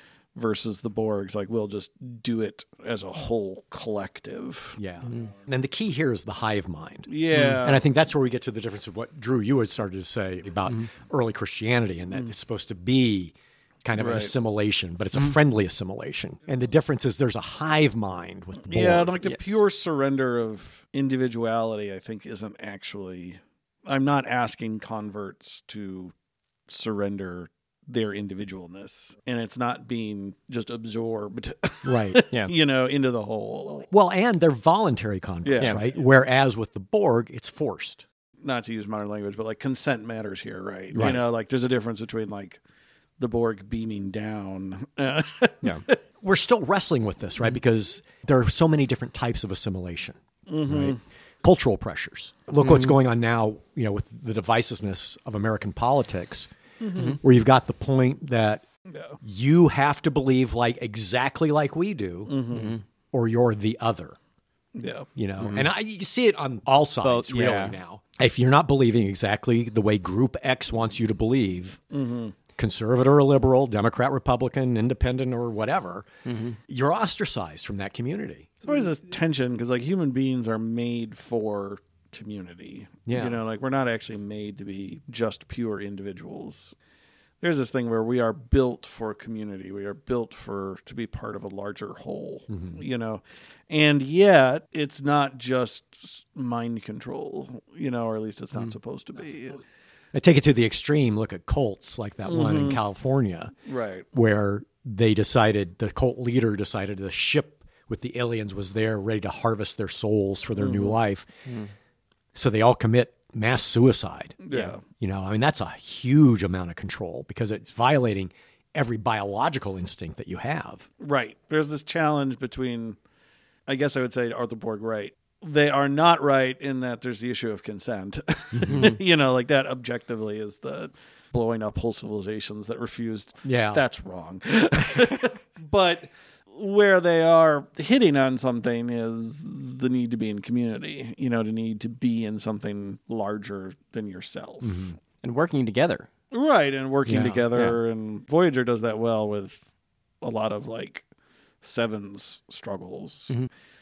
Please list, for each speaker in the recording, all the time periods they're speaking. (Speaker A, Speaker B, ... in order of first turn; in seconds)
Speaker A: 0.3-4.8, 7.1-7.8, 14.0-14.3, 18.6-26.1, 26.7-33.9, 35.5-35.9, 38.4-42.6, 43.2-46.0, 50.5-51.0, 56.8-57.2, 58.9-59.2, 62.3-62.7, 64.8-65.1, 71.9-72.3, 78.6-86.8, 87.4-99.6, 102.2-102.8, 103.7-104.1, 110.6-111.0, 114.4-114.8, 121.0-123.0, 123.7-144.9, 146.3-149.6, 150.2-151.1, 151.6-153.3
Speaker B: 4.8-19.2, 31.8-32.2, 33.9-38.1, 40.9-41.2, 46.2-56.5, 57.1-58.6, 59.2-62.4, 63.1-64.2, 65.2-71.8, 72.6-76.1, 76.7-78.6, 83.1-83.4, 92.5-92.8, 100.1-103.5, 104.1-111.3, 112.3-114.4, 114.9-120.9, 128.5-128.9, 133.4-133.8, 144.6-145.0, 147.1-147.5
Speaker C: 7.3-7.6, 52.6-53.0, 62.5-62.8, 65.4-65.7, 67.0-67.8, 76.2-76.6, 111.5-111.7, 128.7-129.0, 145.2-146.1, 147.5-147.8